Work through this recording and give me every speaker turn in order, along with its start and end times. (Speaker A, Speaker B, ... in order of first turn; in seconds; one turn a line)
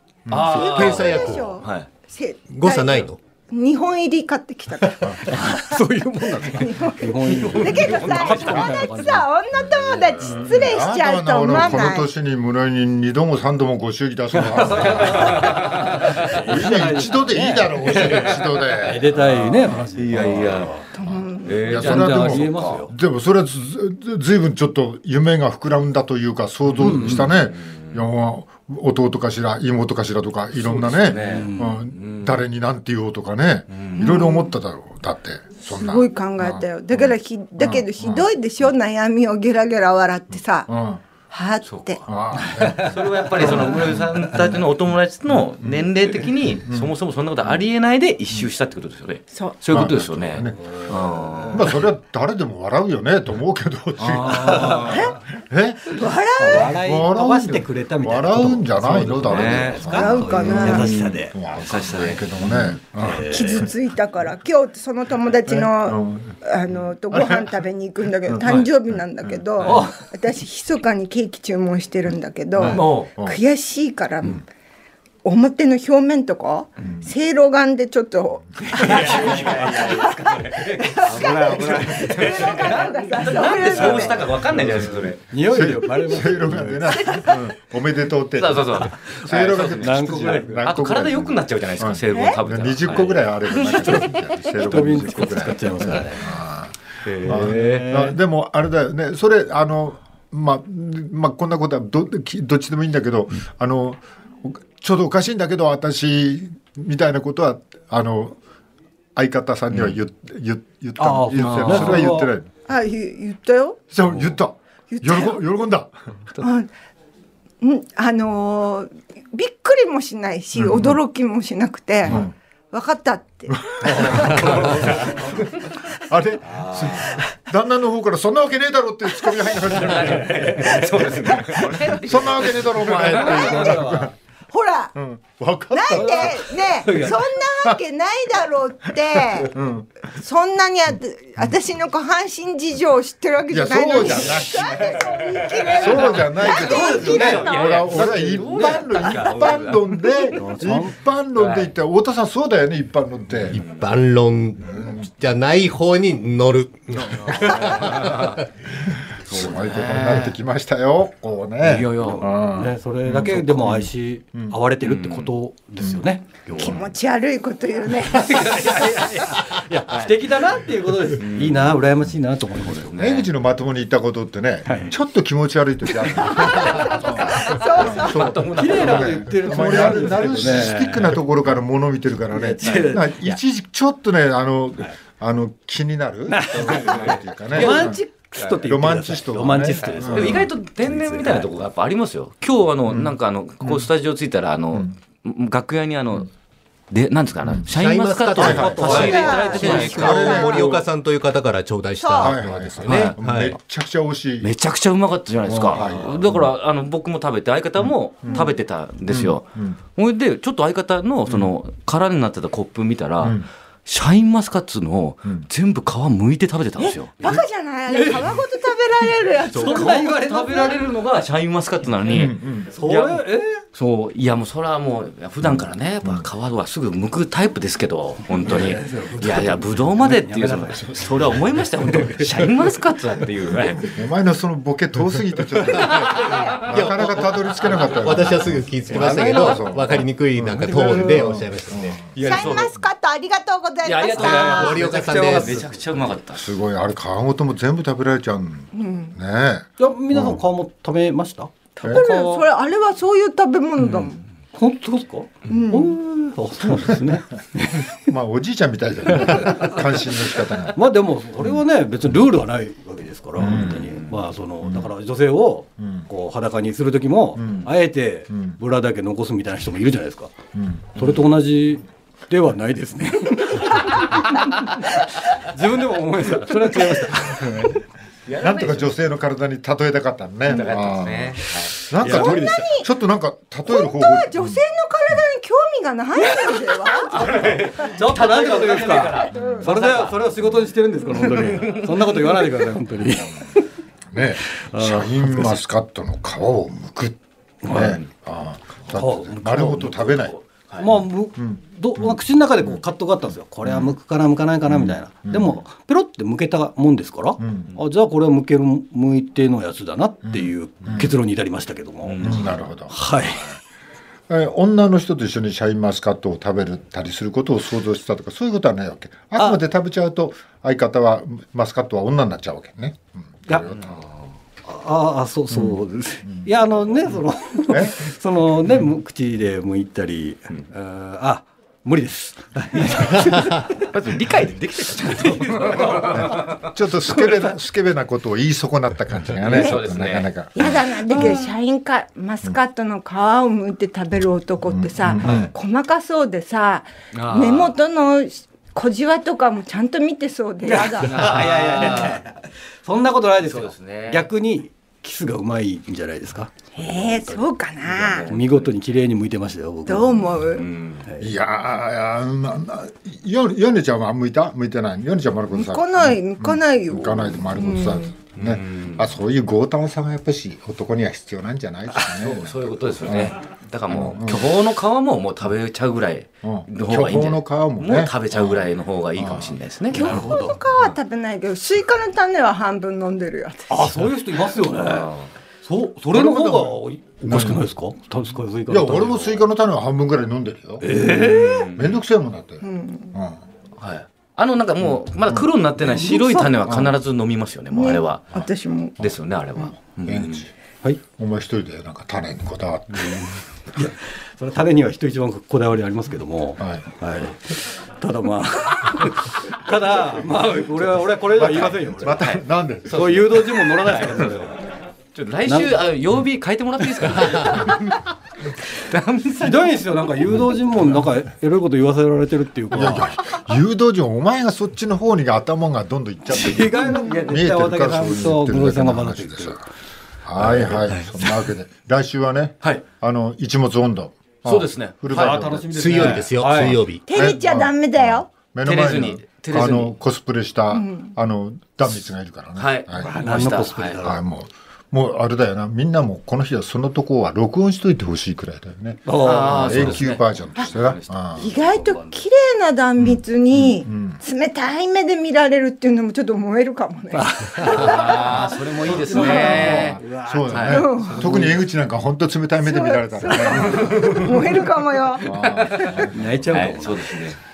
Speaker A: 0.3-0.8
Speaker B: 0.3-1.9
Speaker C: 0.5-1.6
Speaker D: 0.5-5.8
Speaker C: 2.5-3.2
Speaker E: 5.0-9.3
Speaker D: 6.5-12.1
Speaker B: 7.3-8.7
Speaker A: 9.7-15.6
Speaker E: 14.3-20.9
Speaker B: 14.7-16.3
Speaker A: 16.3-19.2
Speaker B: 18.0-18.4
Speaker B: 19.1-20.8
Speaker D: 20.9-21.6
Speaker A: 21.0-36.6
Speaker B: 21.4-22.9
Speaker E: 21.7-22.9
Speaker E: 26.8-27.3
Speaker B: 26.8-28.0
Speaker B: 30.6-32.4
Speaker E: 31.1-31.8
Speaker B: 33.7-34.0
Speaker D: 34.0-34.5
Speaker D: 35.6-40.7
Speaker A: 37.6-38.3
Speaker A: 40.7-41.0
Speaker D: 41.3-42.0
Speaker B: 41.7-41.9
Speaker A: 42.1-44.0
Speaker E: 42.5-44.0
Speaker B: 42.6-51.7
Speaker A: 45.6-45.9
Speaker A: 46.6-46.9
Speaker A: 49.7-50.8
Speaker E: 50.5-51.6
Speaker A: 51.5-63.6
Speaker B: 54.0-55.0
Speaker E: 54.3-55.0
Speaker D: 54.9-55.2
Speaker D: 55.9-56.7
Speaker E: 56.5-61.4
Speaker B: 59.2-59.9
Speaker D: 59.9-60.9
Speaker B: 60.6-62.2
Speaker E: 62.5-63.7
Speaker D: 63.3-74.4
Speaker A: 65.5-66.4
Speaker A: 67.1-67.5
Speaker A: 68.3-68.6
Speaker E: 69.7-70.0
Speaker A: 72.6-73.4
Speaker B: 72.6-73.1
Speaker D: 75.2-84.3
Speaker E: 78.7-80.1
Speaker B: 78.8-85.3
Speaker E: 81.0-87.2
Speaker A: 84.5-108.4
Speaker D: 87.0-87.3
Speaker B: 88.3-94.2
Speaker E: 89.1-90.7
Speaker D: 92.1-92.4
Speaker E: 94.0-96.4
Speaker B: 97.0-97.9
Speaker E: 97.2-98.2
Speaker A: 109.2-112.5
Speaker E: 111.0-112.3
Speaker B: 111.4-112.1
Speaker D: 112.7-113.8
Speaker A: 113.9-115.9
Speaker D: 114.9-115.4
Speaker D: 116.4-116.7
Speaker D: 117.6-124.5
Speaker A: 120.5-121.0
Speaker A: 122.1-122.3
Speaker A: 123.5-125.3
Speaker E: 124.2-125.0
Speaker B: 124.4-124.9
Speaker A: 125.9-130.5
Speaker E: 126.5-127.2
Speaker D: 129.2-129.6
Speaker B: 129.7-133.8
Speaker E: 130.0-131.0
Speaker A: 131.9-134.1
Speaker E: 132.9-134.1
Speaker D: 133.2-133.9
Speaker D: 134.5-134.9
Speaker A: 135.0-137.0
Speaker D: 135.7-139.5
Speaker E: 135.9-137.3
Speaker A: 139.2-139.9
Speaker D: 140.1-147.7
Speaker A: 143.5-153.6
Speaker B: 145.6-150.3
Speaker E: 146.6-149.0
Speaker E: 150.3-151.0
Speaker B: 151.4-151.7
Speaker C: 153.5-158.4
Speaker B: 153.5-153.8
Speaker A: 154.6-155.1
Speaker A: 157.3-158.1
Speaker B: 157.3-158.4
Speaker A: 158.8-164.6
Speaker B: 159.3-160.4
Speaker B: 161.6-162.3
Speaker E: 162.0-166.8
Speaker B: 164.8-165.3
Speaker B: 166.5-166.8
Speaker D: 166.6-168.8
Speaker E: 168.1-172.9
Speaker B: 169.9-170.2
Speaker B: 171.2-171.8
Speaker B: 172.6-173.3
Speaker A: 173.0-188.0
Speaker E: 174.7-174.9
Speaker E: 176.1-176.9
Speaker D: 176.2-178.2
Speaker B: 177.4-180.5
Speaker E: 178.5-181.2
Speaker E: 182.3-183.4
Speaker B: 182.6-183.0
Speaker E: 186.3-191.5
Speaker B: 186.6-188.6
Speaker A: 188.6-190.5
Speaker B: 190.0-196.3
Speaker A: 192.9-193.9
Speaker B: 196.9-200.3
Speaker A: 197.4-197.7
Speaker C: 197.7-203.6
Speaker A: 198.4-200.9
Speaker E: 198.4-199.8
Speaker D: 198.8-200.8
Speaker D: 202.0-202.4
Speaker A: 202.2-204.5
Speaker B: 202.8-203.2
Speaker B: 204.4-217.2
Speaker A: 205.5-206.5
Speaker E: 205.8-206.0
Speaker A: 207.8-208.5
Speaker D: 208.3-208.5
Speaker A: 209.1-209.8
Speaker A: 213.2-213.5
Speaker D: 216.8-220.4
Speaker E: 217.2-218.4
Speaker E: 219.5-220.8
Speaker B: 219.5-233.9
Speaker E: 222.1-223.6
Speaker A: 222.1-222.7
Speaker A: 225.5-226.3
Speaker E: 228.4-231.3
Speaker E: 231.8-232.5
Speaker A: 233.9-242.1
Speaker B: 235.9-236.6
Speaker C: 236.6-242.0
Speaker E: 238.9-239.6
Speaker E: 240.5-241.4
Speaker B: 242.1-242.8
Speaker D: 242.2-244.9
Speaker B: 243.8-246.5
Speaker C: 244.2-245.6
Speaker E: 244.3-245.6
Speaker A: 246.3-250.4
Speaker D: 248.7-249.2
Speaker E: 249.8-252.5
Speaker D: 251.8-254.2
Speaker E: 254.5-257.9
Speaker D: 255.5-256.0
Speaker A: 257.9-260.8
Speaker E: 259.2-259.7
Speaker E: 260.8-270.4
Speaker A: 263.4-263.9
Speaker B: 263.4-264.1
Speaker A: 264.6-264.9
Speaker A: 265.8-266.1
Speaker A: 267.4-267.7
Speaker A: 268.3-268.6
Speaker A: 270.6-271.2
Speaker E: 271.0-277.8
Speaker A: 277.4-277.8
Speaker B: 278.3-279.0
Speaker A: 278.4-284.6
Speaker B: 280.5-281.8
Speaker E: 281.8-282.7
Speaker D: 282.0-282.9
Speaker D: 283.7-287.4
Speaker B: 287.1-290.6
Speaker E: 287.2-293.6
Speaker D: 289.3-289.6
Speaker B: 291.1-292.4
Speaker A: 294.1-300.3
Speaker E: 294.5-295.6
Speaker E: 297.6-298.0
Speaker B: 297.7-298.1
Speaker E: 298.9-300.0
Speaker B: 299.8-300.9
Speaker E: 300.8-313.6
Speaker A: 301.4-302.8
Speaker A: 304.7-305.6
Speaker A: 307.4-307.7
Speaker A: 310.3-311.1
Speaker B: 312.0-312.5
Speaker A: 312.2-312.9
Speaker A: 314.3-324.1
Speaker B: 323.8-324.1
Speaker E: 324.6-333.8
Speaker A: 325.5-326.5
Speaker A: 327.7-328.1
Speaker B: 333.8-336.7
Speaker A: 335.8-340.8
Speaker B: 339.4-340.3
Speaker D: 340.6-351.3
Speaker A: 344.7-345.5
Speaker B: 347.1-347.8
Speaker E: 350.6-357.5
Speaker B: 351.0-352.2
Speaker B: 353.4-354.3
Speaker D: 356.8-358.3
Speaker B: 357.9-358.7
Speaker E: 358.2-360.5
Speaker D: 359.9-360.6
Speaker B: 360.5-361.1
Speaker E: 361.1-361.3
Speaker A: 361.2-373.4
Speaker D: 365.5-368.1
Speaker B: 368.4-369.1
Speaker B: 372.1-380.1
Speaker A: 373.9-374.5
Speaker A: 376.4-379.6
Speaker D: 379.9-383.9
Speaker E: 379.9-380.6
Speaker E: 383.7-389.5
Speaker B: 384.7-385.3
Speaker A: 386.1-387.6
Speaker A: 388.7-391.0
Speaker E: 390.8-391.7
Speaker B: 391.0-392.0
Speaker A: 391.8-393.4
Speaker D: 392.6-393.1
Speaker B: 393.8-398.4
Speaker D: 396.0-396.5
Speaker A: 396.7-396.9
Speaker D: 397.7-399.0
Speaker B: 399.0-400.5
Speaker A: 400.1-400.5
Speaker A: 401.1-403.4
Speaker E: 403.8-412.2
Speaker A: 406.6-406.9
Speaker A: 411.4-413.3
Speaker B: 412.1-414.4
Speaker E: 412.9-414.6
Speaker B: 415.1-418.1
Speaker E: 415.5-415.8
Speaker B: 418.7-419.8
Speaker E: 419.4-423.2
Speaker A: 422.7-429.6
Speaker E: 426.3-429.6
Speaker A: 430.2-443.4
Speaker B: 430.5-431.4
Speaker B: 434.4-435.4
Speaker E: 435.1-436.8
Speaker C: 435.7-437.0
Speaker D: 437.1-438.3
Speaker B: 438.6-439.9
Speaker D: 440.7-441.1
Speaker B: 442.6-444.1
Speaker E: 443.0-444.2
Speaker A: 444.0-451.4
Speaker E: 449.1-450.1
Speaker B: 449.2-452.1
Speaker D: 451.4-459.7
Speaker A: 453.0-454.2
Speaker E: 457.1-461.6
Speaker B: 457.6-461.6
Speaker A: 459.5-464.4
Speaker D: 460.7-461.2
Speaker D: 462.6-465.3
Speaker B: 463.7-464.1
Speaker A: 465.2-466.5
Speaker B: 465.3-467.4
Speaker E: 466.0-467.3